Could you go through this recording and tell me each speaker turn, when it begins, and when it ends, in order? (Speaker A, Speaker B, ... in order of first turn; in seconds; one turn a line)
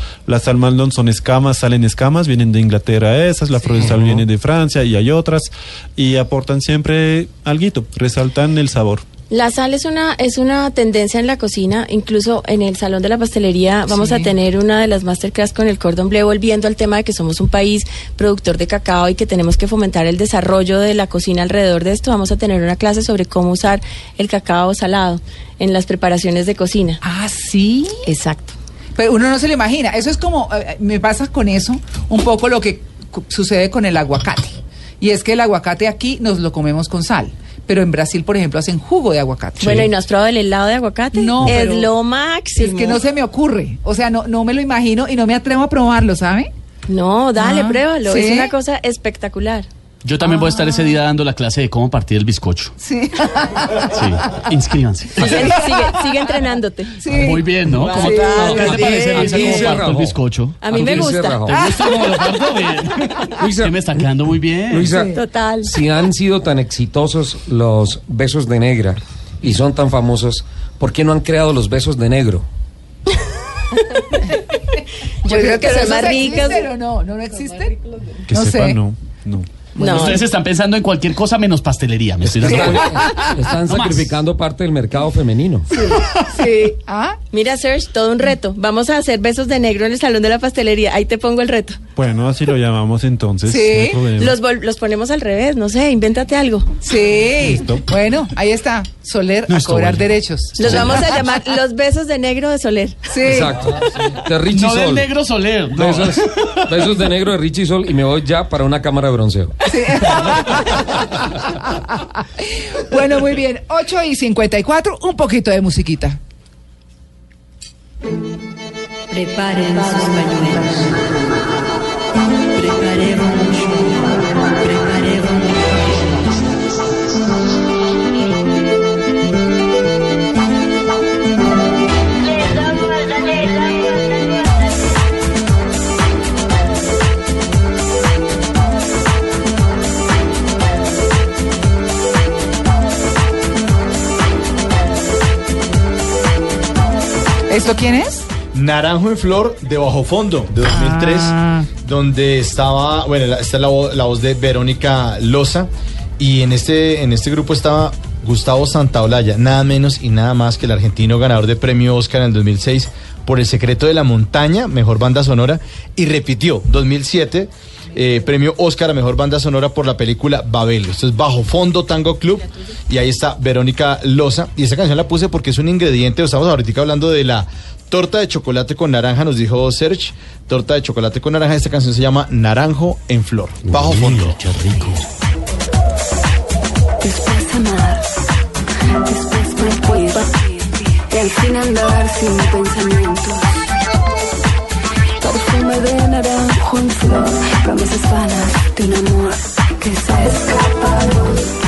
Speaker A: 0.2-9.0
Speaker B: 3.6-3.9
Speaker C: 9.3-27.0
Speaker B: 13.9-14.3
Speaker B: 27.0-28.1
Speaker C: 28.1-28.5
Speaker B: 29.0-39.9
Speaker C: 39.6-43.0
Speaker B: 41.1-41.9
Speaker B: 42.5-46.5
Speaker C: 46.9-49.6
Speaker B: 47.4-48.5
Speaker D: 50.0-52.7
Speaker B: 50.2-51.0
Speaker B: 52.8-54.4
Speaker D: 53.9-55.6
Speaker C: 55.2-57.1
Speaker B: 57.0-59.4
Speaker D: 57.1-64.9
Speaker C: 57.7-59.8
Speaker E: 57.9-60.2
Speaker C: 60.6-61.5
Speaker E: 60.7-61.6
Speaker B: 61.5-62.3
Speaker E: 63.4-63.8
Speaker E: 64.7-72.5
Speaker B: 64.9-65.2
Speaker C: 65.1-65.7
Speaker C: 73.7-74.2
Speaker C: 75.2-76.7
Speaker B: 75.2-78.8
Speaker A: 78.3-79.5
Speaker C: 79.8-80.2
Speaker B: 79.8-80.2
Speaker D: 79.9-84.1
Speaker E: 82.2-85.7
Speaker B: 85.7-87.2
Speaker C: 87.3-91.8
Speaker A: 92.0-94.4
Speaker B: 93.5-94.0
Speaker C: 94.2-96.7
Speaker B: 96.8-100.9
Speaker A: 97.2-97.9
Speaker D: 99.5-100.1
Speaker C: 100.6-103.0
Speaker B: 103.1-103.7
Speaker E: 103.2-105.1
Speaker D: 104.5-106.9
Speaker E: 105.7-109.6
Speaker B: 109.7-116.2
Speaker C: 119.1-120.9
Speaker C: 122.5-126.4
Speaker B: 147.5-148.3
Speaker F: 148.5-184.4
Speaker B: 150.6-151.7
Speaker E: 183.7-184.0
Speaker D: 183.8-185.0
Speaker G: 187.0-188.2
Speaker G: 189.0-193.7
Speaker G: 195.2-201.4